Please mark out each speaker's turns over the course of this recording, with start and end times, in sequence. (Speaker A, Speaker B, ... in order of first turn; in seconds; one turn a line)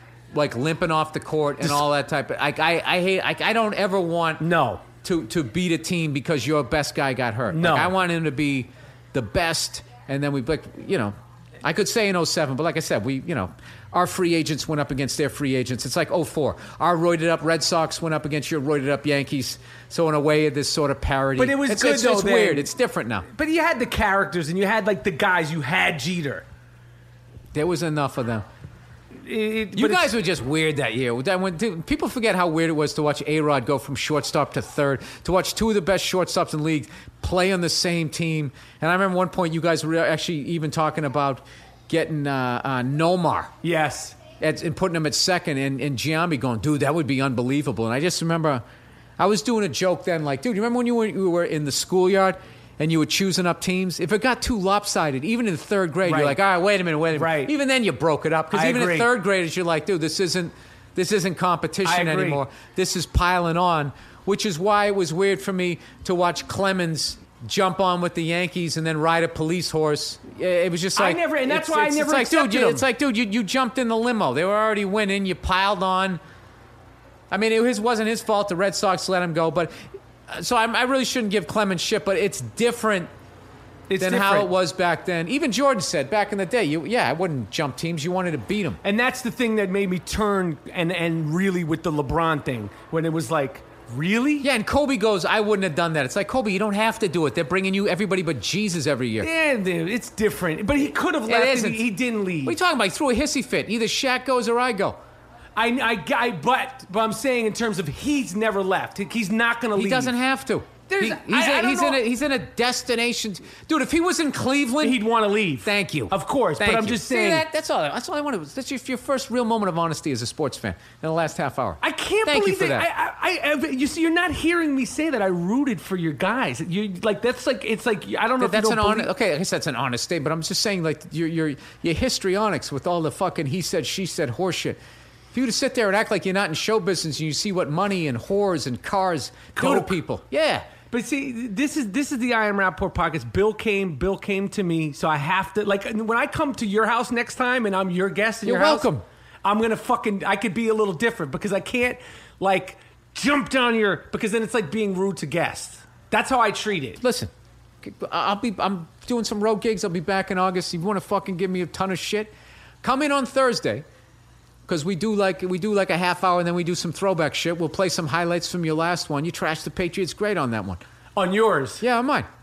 Speaker A: 0.3-23.2
Speaker B: 4.4-4.8
Speaker B: 7.5-7.9
Speaker B: 21.4-22.7
Speaker B: 23.3-26.4
Speaker A: 27.5-28.4
Speaker B: 29.2-30.1
Speaker A: 29.8-43.5
Speaker B: 43.6-44.2
Speaker A: 44.4-48.6
Speaker A: 49.2-76.2
Speaker B: 56.0-56.4
Speaker B: 57.1-57.5
Speaker B: 58.5-59.1
Speaker B: 61.8-62.4
Speaker B: 71.0-72.8
Speaker A: 77.3-79.7
Speaker A: 80.3-83.1
Speaker B: 83.9-84.5
Speaker A: 84.0-88.8
Speaker B: 88.8-94.5
Speaker A: 94.4-99.3
Speaker B: 99.2-102.6
Speaker A: 101.3-101.9
Speaker A: 102.4-105.0
Speaker B: 105.5-110.1
Speaker A: 109.8-115.0
Speaker B: 110.9-112.0
Speaker B: 114.8-117.4
Speaker A: 115.6-122.9
Speaker B: 121.8-129.1
Speaker A: 128.4-134.8
Speaker A: 135.3-140.7
Speaker B: 139.6-139.9
Speaker B: 140.9-148.9
Speaker A: 148.4-149.0
Speaker B: 149.4-157.0
Speaker A: 157.0-157.3
Speaker A: 157.8-162.3
Speaker A: 162.8-163.8
Speaker A: 164.7-170.8
Speaker B: 171.2-171.8
Speaker A: 171.8-172.3